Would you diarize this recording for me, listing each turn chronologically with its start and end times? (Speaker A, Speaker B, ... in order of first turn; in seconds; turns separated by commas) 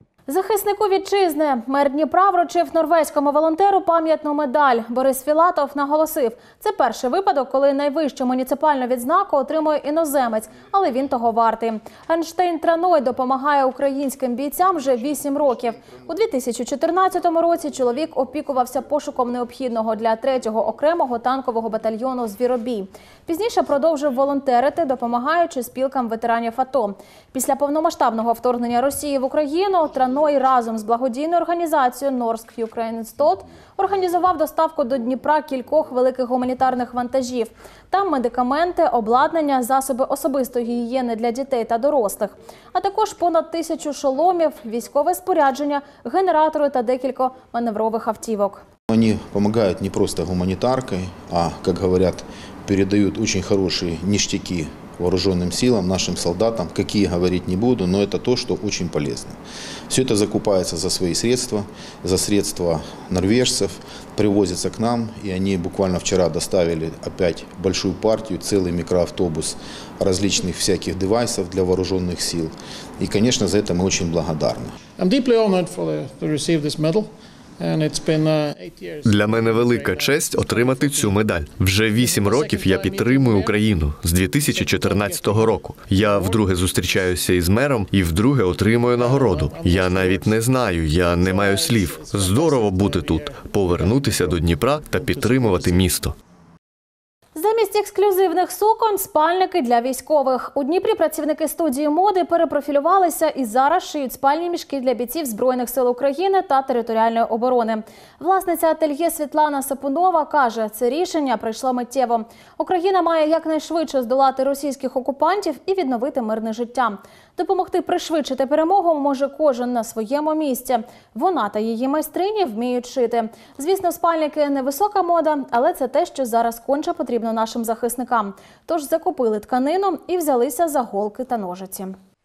Speaker A: 0.3-48.6, Speaker B: 48.9-74.8, Speaker C: 75.1-77.0, Speaker C: 77.6-79.8, Speaker D: 79.0-96.2, Speaker C: 82.2-82.8, Speaker A: 97.3-132.0